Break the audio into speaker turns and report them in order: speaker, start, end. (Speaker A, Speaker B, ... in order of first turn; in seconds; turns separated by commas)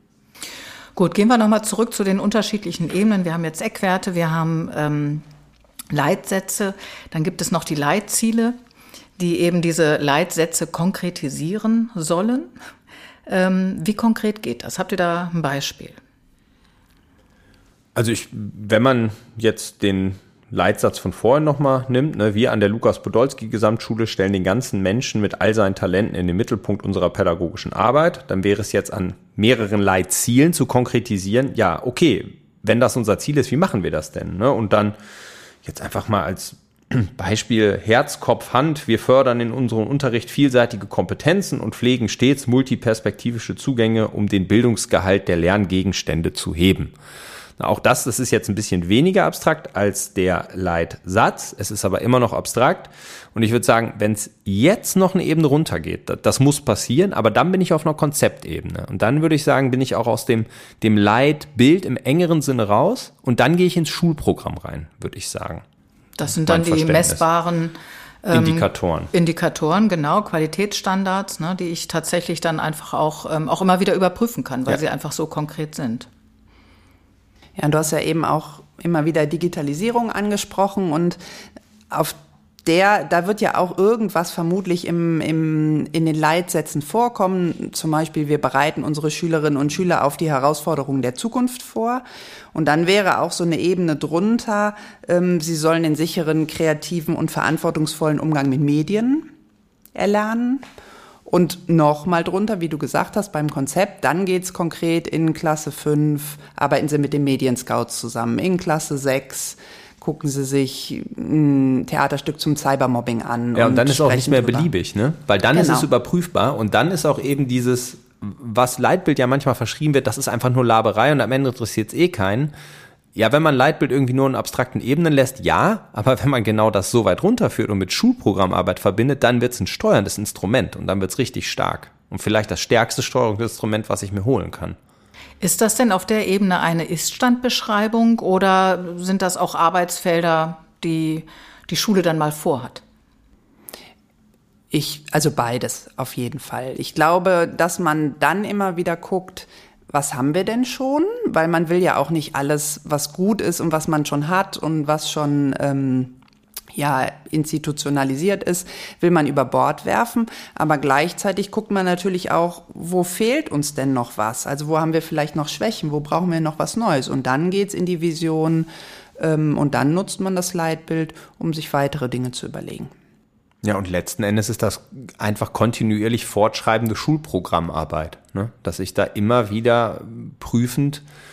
Speaker A: 1.0-5.2, Speaker A: 5.9-8.6, Speaker A: 9.2-12.5, Speaker A: 13.3-16.0, Speaker B: 17.9-35.0, Speaker B: 35.6-46.9, Speaker B: 47.6-65.6, Speaker A: 66.2-76.1, Speaker B: 66.4-67.2, Speaker B: 68.3-69.1, Speaker C: 77.6-81.2, Speaker C: 81.9-99.3, Speaker C: 99.9-100.6, Speaker C: 101.3-114.7, Speaker B: 113.6-122.5, Speaker C: 115.5-115.9, Speaker B: 123.2-134.8, Speaker A: 135.4-142.8, Speaker C: 144.7-156.2, Speaker C: 156.7-172.9, Speaker B: 173.6-181.0